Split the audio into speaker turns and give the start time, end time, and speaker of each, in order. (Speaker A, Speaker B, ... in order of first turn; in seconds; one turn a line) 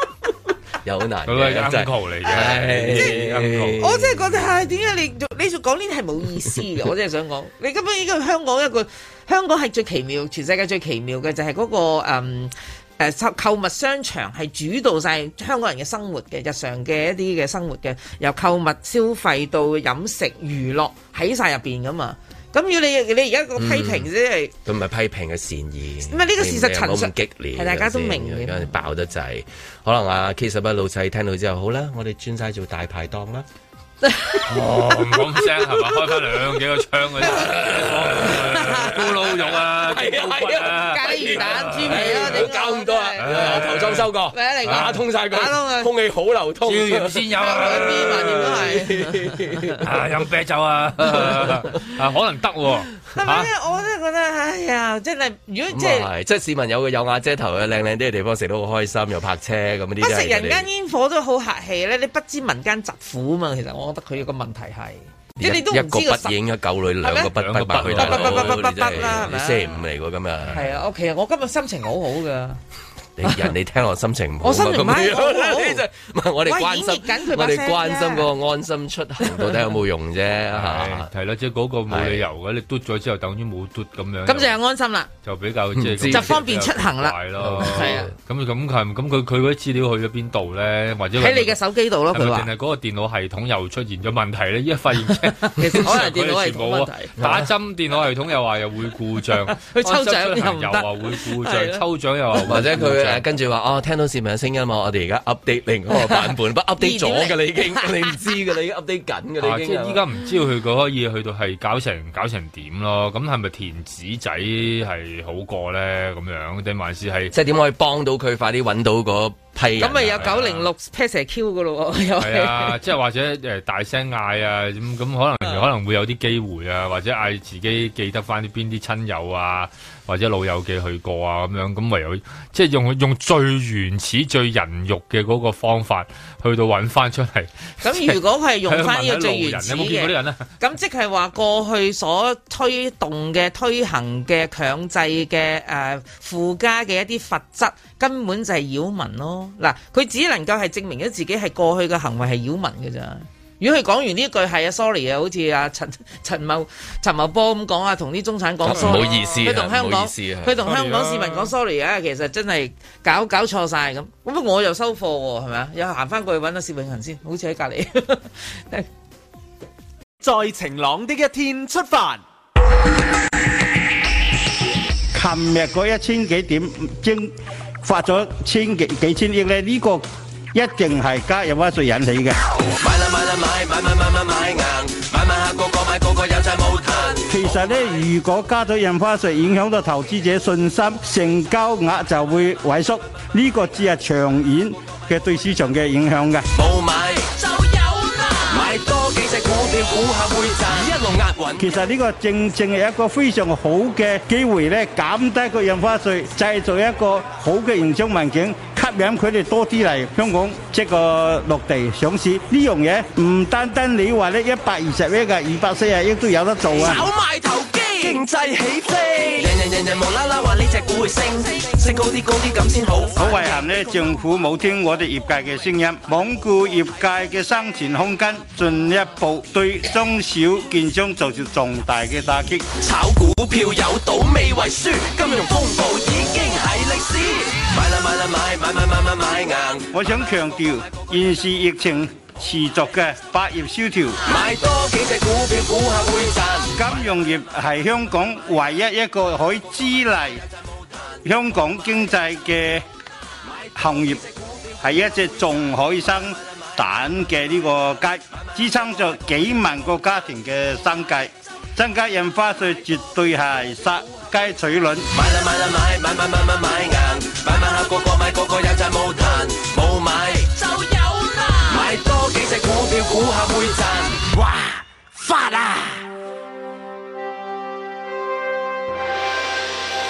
Speaker A: 0.8-4.3
Speaker B: 1.3-3.8
Speaker C: 3.8-24.5
Speaker A: 23.6-24.1
Speaker A: 24.6-33.5
Speaker C: 26.1-28.7
Speaker B: 34.5-42.5
Speaker A: 34.6-35.0
Speaker A: 37.2-49.9
Speaker C: 38.2-39.0
Speaker C: 40.7-43.7
Speaker B: 43.2-44.1
Speaker C: 44.3-45.9
Speaker B: 44.6-45.0
Speaker B: 46.6-48.7
Speaker C: 47.4-49.1
Speaker B: 49.8-53.5
Speaker A: 51.2-51.6
Speaker C: 53.1-56.1
Speaker A: 55.7-60.6
Speaker C: 60.0-66.3
Speaker A: 65.4-70.7
Speaker C: 67.0-69.8
Speaker B: 67.3-69.3
Speaker C: 70.5-72.6
Speaker A: 73.2-81.1
Speaker C: 74.4-75.8
Speaker C: 76.4-78.3
Speaker B: 80.5-84.5
Speaker A: 81.9-82.2
Speaker C: 84.2-85.1
Speaker B: 85.2-91.6
Speaker A: 85.8-86.4
Speaker C: 86.1-88.1
Speaker A: 87.4-88.1
Speaker C: 91.2-92.5
Speaker B: 92.1-103.3
Speaker C: 95.1-97.1
Speaker A: 97.2-97.5
Speaker C: 99.5-101.8
Speaker A: 102.5-110.0
Speaker C: 106.1-107.9
Speaker B: 109.4-117.3
Speaker A: 117.3-120.3
Speaker C: 119.8-122.8
Speaker B: 120.1-120.7
Speaker B: 122.2-140.5
Speaker C: 137.8-168.9
Speaker A: 158.6-160.6
Speaker B: 158.7-159.3
Speaker B: 160.6-161.5
Speaker D: 170.2-172.2
Speaker E: 175.1-182.4
Speaker F: 182.8-186.8
Speaker A: 184.1-187.2
Speaker E: 187.3-196.4
Speaker A: 196.6-197.2
Speaker F: 196.6-201.6
Speaker A: 198.5-201.6
Speaker E: 201.6-217.1
Speaker F: 216.7-223.5
Speaker A: 219.3-219.7
Speaker E: 223.2-232.7
Speaker F: 232.9-239.5
Speaker A: 233.3-236.6
Speaker A: 237.3-239.8
Speaker E: 239.9-244.2
Speaker A: 244.3-246.7
Speaker F: 244.3-246.3
Speaker E: 246.7-250.4
Speaker E: 251.2-252.8
Speaker E: 253.7-254.2
Speaker E: 254.8-265.1
Speaker F: 265.2-268.0
Speaker A: 265.2-270.4
Speaker F: 268.9-272.4
Speaker A: 271.7-274.2
Speaker F: 273.2-276.0